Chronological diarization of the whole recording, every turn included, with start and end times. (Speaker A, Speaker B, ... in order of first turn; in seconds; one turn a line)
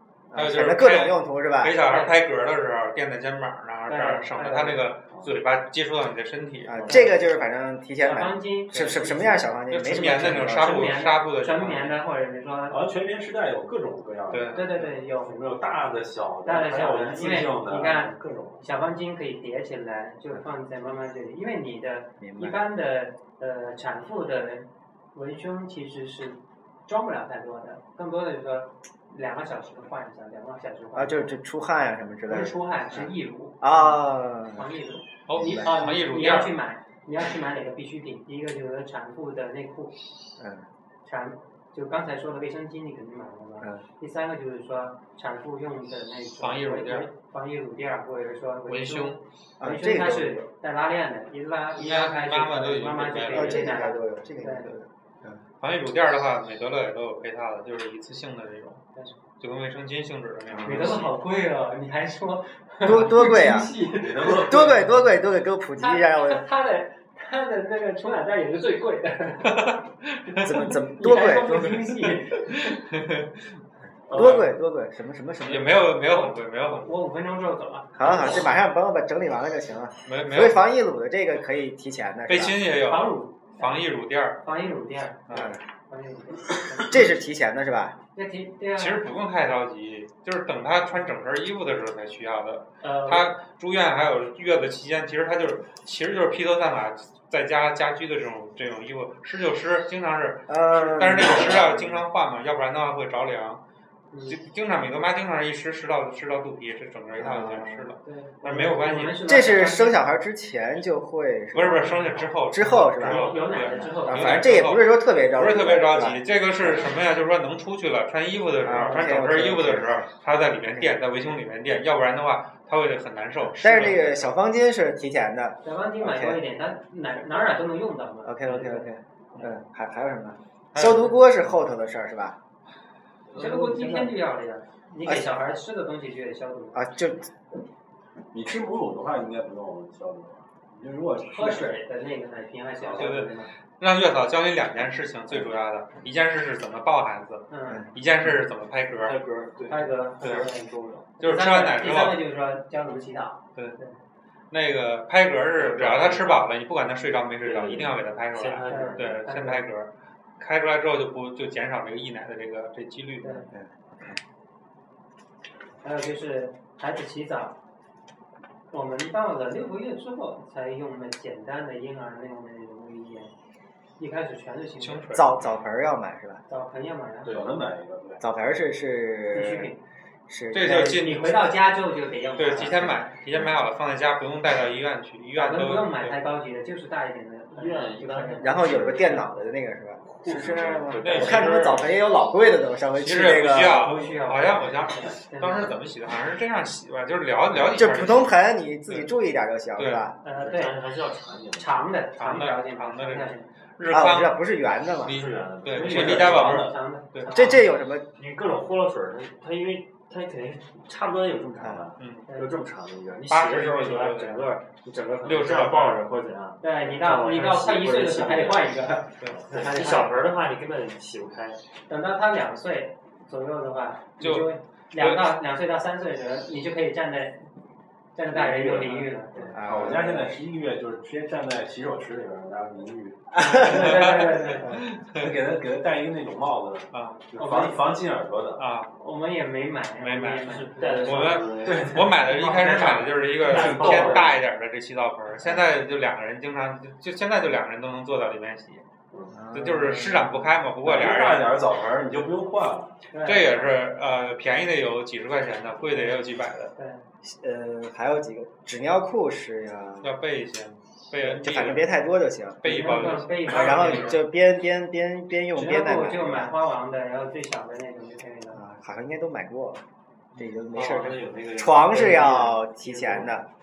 Speaker A: 0.3-1.8
Speaker B: 0.3-7.1
Speaker C: 1.8-2.2
Speaker C: 3.9-4.9
Speaker A: 6.7-11.0
Speaker C: 6.9-12.8
Speaker B: 9.7-11.9
Speaker D: 12.7-18.6
Speaker B: 14.3-14.7
Speaker C: 14.5-15.4
Speaker C: 16.4-31.3
Speaker A: 22.2-22.6
Speaker A: 30.9-34.7
Speaker C: 32.3-33.9
Speaker C: 34.5-40.0
Speaker B: 35.3-36.5
Speaker A: 35.4-35.8
Speaker A: 40.4-40.7
Speaker C: 41.0-54.8
Speaker B: 46.4-47.1
Speaker B: 48.7-49.2
Speaker A: 49.6-50.5
Speaker B: 51.8-53.7
Speaker A: 53.3-55.4
Speaker B: 55.6-58.8
Speaker B: 59.4-61.1
Speaker A: 60.5-61.0
Speaker C: 60.6-65.0
Speaker A: 62.8-63.7
Speaker D: 63.8-64.9
Speaker A: 64.4-66.4
Speaker C: 65.8-69.5
Speaker B: 69.4-70.7
Speaker A: 70.4-72.1
Speaker C: 70.7-72.6
Speaker B: 72.4-73.5
Speaker A: 74.1-75.9
Speaker C: 74.1-74.4
Speaker B: 74.1-74.5
Speaker B: 75.4-77.0
Speaker C: 76.0-78.5
Speaker A: 78.0-82.6
Speaker B: 80.1-80.7
Speaker B: 82.3-84.4
Speaker C: 82.9-87.1
Speaker B: 85.3-85.5
Speaker A: 85.3-85.6
Speaker A: 86.8-88.0
Speaker C: 88.2-89.0
Speaker B: 88.8-103.6
Speaker C: 92.8-93.3
Speaker A: 100.5-102.0
Speaker C: 104.1-104.4
Speaker B: 104.3-109.3
Speaker A: 107.2-107.9
Speaker C: 108.0-110.0
Speaker A: 109.2-113.3
Speaker B: 111.5-124.3
Speaker E: 112.8-114.2
Speaker C: 113.0-114.6
Speaker A: 114.0-116.8
Speaker C: 116.6-116.9
Speaker A: 118.6-120.1
Speaker C: 118.8-119.1
Speaker A: 123.5-126.4
Speaker C: 125.6-128.9
Speaker A: 128.2-132.4
Speaker B: 130.7-131.2
Speaker D: 133.3-134.2
Speaker C: 133.4-136.8
Speaker A: 135.1-135.3
Speaker A: 136.7-137.3
Speaker D: 138.3-141.8
Speaker C: 141.3-143.5
Speaker B: 142.9-149.2
Speaker C: 147.5-147.8
Speaker E: 149.0-151.1
Speaker C: 149.7-153.9
Speaker B: 150.2-150.5
Speaker B: 151.2-152.2
Speaker B: 154.5-163.5
Speaker E: 155.6-156.5
Speaker E: 157.4-159.2
Speaker C: 158.7-159.6
Speaker C: 163.2-163.5
Speaker A: 163.5-164.2
Speaker C: 165.8-167.6
Speaker C: 168.7-173.3
Speaker C: 174.0-175.2
Speaker B: 174.8-175.5
Speaker A: 175.1-176.4
Speaker C: 176.5-177.5
Speaker E: 177.2-177.5
Speaker D: 177.3-178.2
Speaker A: 178.2-179.7
Speaker C: 179.3-179.8
Speaker A: 180.3-181.2
Speaker B: 180.5-181.6
Speaker C: 180.7-183.0
Speaker B: 182.4-186.2
Speaker A: 182.6-183.6
Speaker C: 185.3-189.2
Speaker E: 187.5-189.2
Speaker A: 188.4-194.0
Speaker E: 190.2-191.8
Speaker B: 191.0-191.9
Speaker B: 193.0-198.4
Speaker C: 193.5-195.8
Speaker A: 197.6-200.2
Speaker B: 199.8-200.1
Speaker C: 200.2-200.8
Speaker E: 200.3-201.8
Speaker C: 201.6-203.5
Speaker B: 202.2-204.4
Speaker A: 203.9-205.3
Speaker B: 205.0-207.5
Speaker E: 205.1-206.6
Speaker D: 205.8-206.8
Speaker C: 205.9-207.7
Speaker A: 207.3-208.1
Speaker E: 208.2-221.6
Speaker B: 212.0-212.2
Speaker B: 213.3-214.5
Speaker B: 215.2-216.0
Speaker C: 216.6-220.2
Speaker C: 221.9-227.5
Speaker B: 224.2-225.2
Speaker C: 228.2-229.6
Speaker D: 228.4-234.5
Speaker A: 229.6-230.2
Speaker C: 233.4-234.7
Speaker A: 233.4-233.8
Speaker B: 233.7-235.4
Speaker D: 235.1-238.6
Speaker B: 236.9-237.2
Speaker C: 237.4-237.8
Speaker B: 238.6-238.9
Speaker C: 238.9-241.5
Speaker B: 240.0-240.5
Speaker E: 240.4-242.1
Speaker B: 241.0-248.8
Speaker D: 241.6-244.4
Speaker E: 243.4-244.4
Speaker A: 245.3-245.7
Speaker A: 249.3-250.5
Speaker B: 249.5-251.6
Speaker D: 250.8-253.0
Speaker C: 253.1-253.8
Speaker B: 253.2-256.7
Speaker C: 255.9-256.2
Speaker C: 256.8-257.0
Speaker A: 257.2-260.1
Speaker B: 260.0-261.9
Speaker A: 261.1-266.5
Speaker B: 262.6-264.2
Speaker C: 262.6-264.2
Speaker C: 265.5-268.6
Speaker A: 268.5-269.8
Speaker A: 270.4-273.5
Speaker E: 270.7-273.3